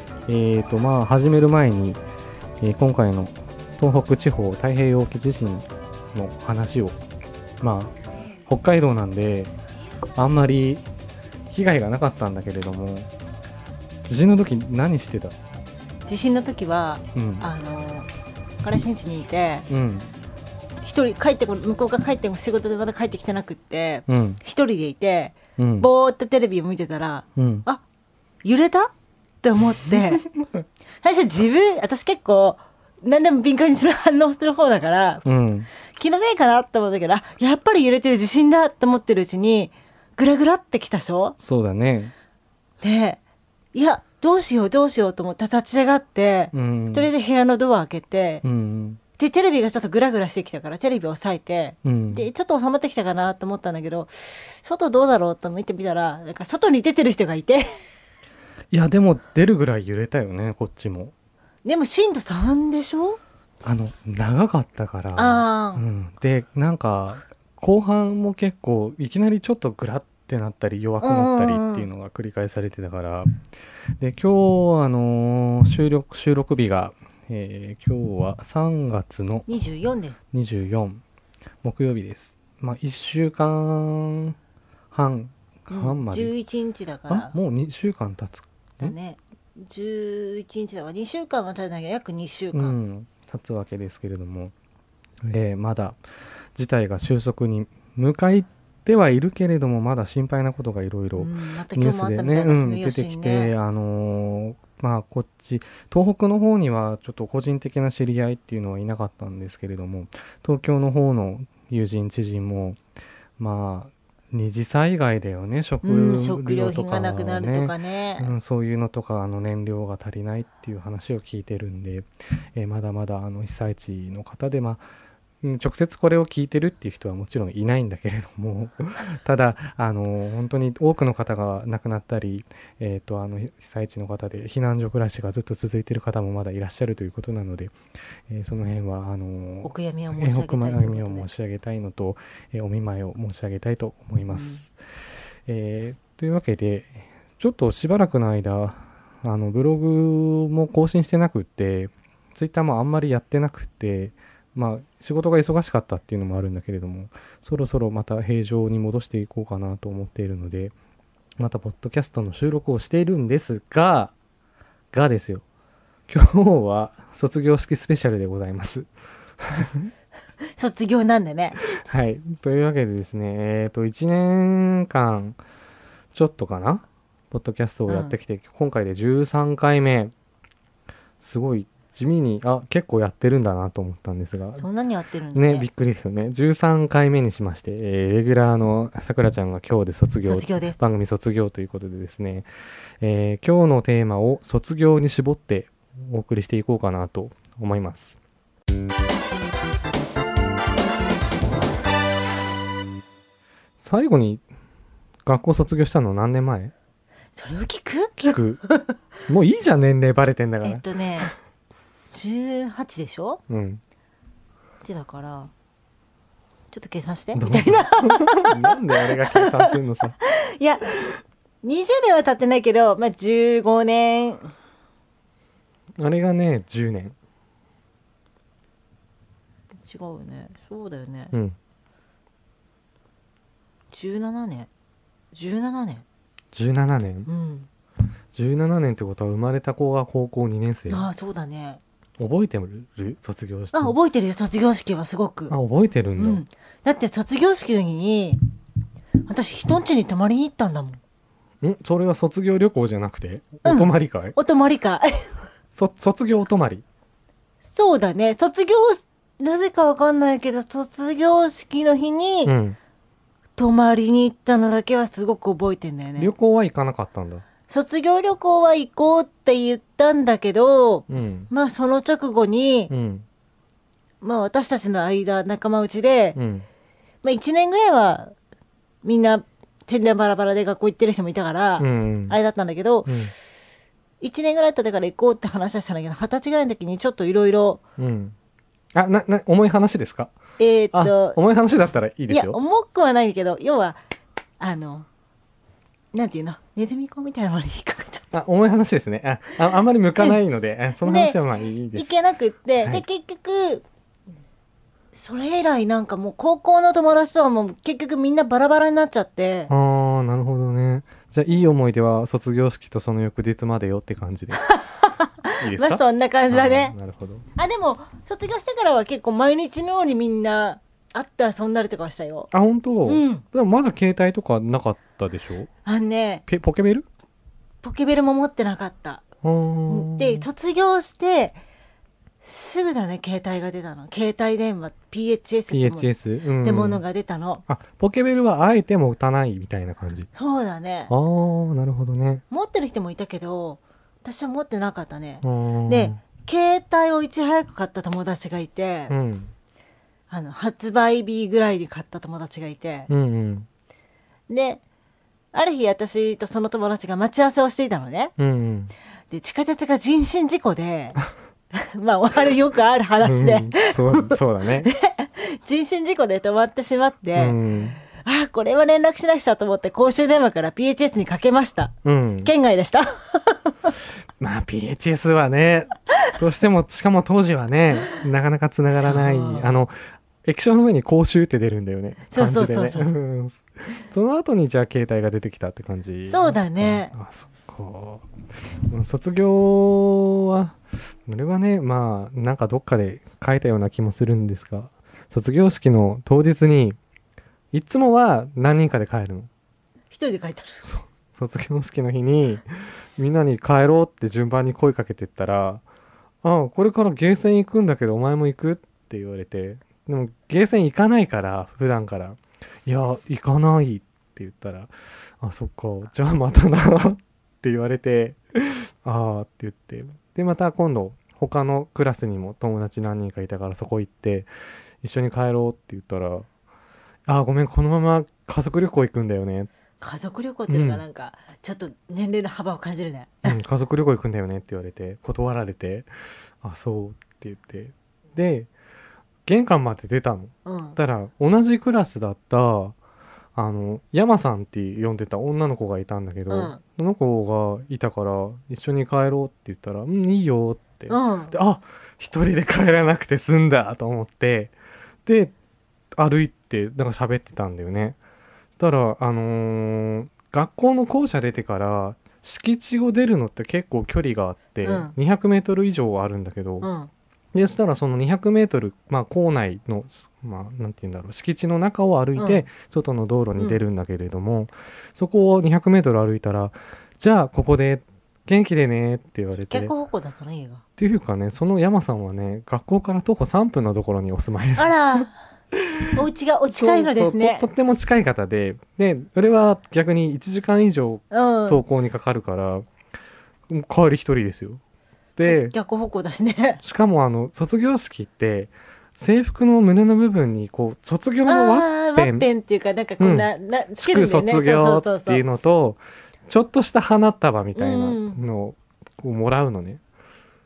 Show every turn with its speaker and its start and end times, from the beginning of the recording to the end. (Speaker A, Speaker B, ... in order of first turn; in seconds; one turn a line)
Speaker A: 0.3-2.0
Speaker A: 2.6-7.0
Speaker A: 7.6-7.9
Speaker A: 8.4-9.5
Speaker A: 10.2-10.8
Speaker A: 11.5-13.1
Speaker A: 14.1-15.3
Speaker B: 16.1-18.1
Speaker A: 17.1-17.5
Speaker B: 18.6-19.7
Speaker A: 19.7-20.1
Speaker B: 20.8-27.8
Speaker A: 24.1-24.4
Speaker A: 25.6-25.9
Speaker A: 27.4-27.6
Speaker B: 28.4-30.2
Speaker B: 31.0-35.3
Speaker A: 35.2-35.7
Speaker B: 35.8-41.4
Speaker A: 41.4-42.1
Speaker B: 42.8-43.2
Speaker B: 43.7-48.4
Speaker A: 46.5-47.1
Speaker A: 48.4-49.0
Speaker B: 49.2-57.7
Speaker A: 51.8-52.3
Speaker A: 58.7-61.1
Speaker B: 61.6-63.2
Speaker A: 63.6-73.3
Speaker B: 65.2-65.8
Speaker B: 71.0-71.9
Speaker A: 74.0-79.5
Speaker B: 79.5-80.2
Speaker A: 80.3-81.0
Speaker A: 81.6-84.3
Speaker A: 84.9-86.3
Speaker B: 85.7-87.3
Speaker A: 87.1-88.9
Speaker B: 88.8-92.8
Speaker A: 92.5-94.5
Speaker A: 95.3-96.0
Speaker A: 96.5-112.8
Speaker B: 101.2-103.5
Speaker A: 113.4-124.8
Speaker B: 115.8-118.3
Speaker A: 125.4-137.8
Speaker A: 138.3-144.7
Speaker B: 139.6-141.3
Speaker B: 144.3-144.6
Speaker A: 145.5-160.7
Speaker A: 161.4-164.1
Speaker A: 164.9-165.4
Speaker A: 166.1-168.9
Speaker A: 169.4-169.9
Speaker B: 170.6-171.7
Speaker A: 171.7-175.4
Speaker A: 176.1-180.1
Speaker B: 177.9-178.2
Speaker A: 181.2-184.7
Speaker B: 184.6-185.7
Speaker A: 185.3-192.5
Speaker B: 190.2-190.8
Speaker A: 193.0-198.2
Speaker A: 203.8-204.4
Speaker A: 205.2-206.7
Speaker B: 207.3-209.0
Speaker A: 208.2-208.6
Speaker A: 209.3-211.3
Speaker B: 210.6-211.3
Speaker B: 212.1-213.4
Speaker A: 213.5-213.8
Speaker B: 214.8-215.5
Speaker B: 216.7-219.8
Speaker A: 217.3-220.2
Speaker B: 220.3-221.1
Speaker B: 221.6-224.5
Speaker A: 226.0-227.2
Speaker B: 229.8-231.3
Speaker B: 233.9-234.7
Speaker B: 235.3-236.0
Speaker A: 236.5-237.3
Speaker B: 237.3-237.7
Speaker A: 238.3-241.1
Speaker B: 240.9-241.8
Speaker A: 242.2-244.0
Speaker B: 243.7-245.5
Speaker A: 245.5-246.4
Speaker B: 246.2-248.4
Speaker B: 249.3-251.0
Speaker A: 251.6-254.3
Speaker B: 253.6-255.3
Speaker A: 255.7-256.8
Speaker B: 257.6-262.5
Speaker A: 262.4-262.8
Speaker B: 263.6-266.3
Speaker A: 266.1-267.4
Speaker B: 267.7-272.9
Speaker A: 271.1-271.5
Speaker A: 272.9-273.2
Speaker B: 274.2-276.4
Speaker A: 276.4-276.6
Speaker B: 277.2-278.3
Speaker B: 279.0-283.3
Speaker A: 281.8-282.4
Speaker A: 283.1-283.3
Speaker B: 284.2-287.8
Speaker A: 288.0-288.3
Speaker A: 288.9-290.3
Speaker B: 290.6-291.4
Speaker A: 290.9-292.6
Speaker B: 292.3-294.0
Speaker B: 294.6-295.1
Speaker B: 296.1-298.3
Speaker A: 298.3-302.1
Speaker B: 301.0-301.4
Speaker B: 301.9-303.8
Speaker B: 305.1-309.7
Speaker A: 309.7-314.6
Speaker B: 314.6-316.9
Speaker A: 315.6-317.4
Speaker B: 317.6-322.5
Speaker A: 322.5-325.7
Speaker B: 323.0-323.4
Speaker B: 325.8-326.4
Speaker A: 326.5-327.1
Speaker B: 327.8-329.2
Speaker A: 329.4-330.5
Speaker B: 329.9-331.6
Speaker B: 332.4-336.1
Speaker A: 335.7-337.0
Speaker B: 336.6-337.6
Speaker A: 337.7-340.3
Speaker B: 340.3-341.1
Speaker A: 341.1-342.4
Speaker B: 342.5-349.1
Speaker A: 345.4-346.2
Speaker A: 349.1-349.5
Speaker B: 350.3-353.1
Speaker A: 353.1-353.7
Speaker B: 354.5-354.8
Speaker B: 355.5-358.3
Speaker A: 358.4-358.9
Speaker B: 359.3-361.2
Speaker B: 361.7-373.9
Speaker A: 363.2-364.9
Speaker A: 367.4-368.0
Speaker A: 372.0-372.5
Speaker A: 374.4-388.2
Speaker B: 378.9-379.8
Speaker B: 382.3-383.1
Speaker B: 386.3-387.1
Speaker A: 388.9-397.0
Speaker A: 397.7-399.5
Speaker B: 400.1-400.9
Speaker A: 400.8-402.6
Speaker A: 403.1-405.8
Speaker A: 406.4-424.5
Speaker A: 425.0-426.5
Speaker A: 427.3-429.7
Speaker B: 430.0-433.6
Speaker A: 430.7-431.0
Speaker A: 433.4-436.1
Speaker A: 436.6-438.7
Speaker A: 439.4-442.9
Speaker B: 440.6-441.0
Speaker A: 443.5-454.8
Speaker B: 446.5-446.8
Speaker B: 451.1-451.5
Speaker A: 455.2-455.5
Speaker A: 456.1-458.2
Speaker A: 458.8-466.9
Speaker B: 464.8-465.1
Speaker B: 466.8-467.1
Speaker A: 467.5-479.9
Speaker B: 472.4-472.6
Speaker B: 479.7-480.8
Speaker A: 481.0-484.9
Speaker B: 484.8-485.3
Speaker A: 485.9-492.9
Speaker B: 486.1-487.6
Speaker B: 491.3-491.8
Speaker A: 493.7-494.8
Speaker A: 495.4-495.7
Speaker B: 495.4-496.8
Speaker A: 496.8-502.5
Speaker B: 501.5-505.4
Speaker A: 503.2-510.0
Speaker B: 507.7-508.4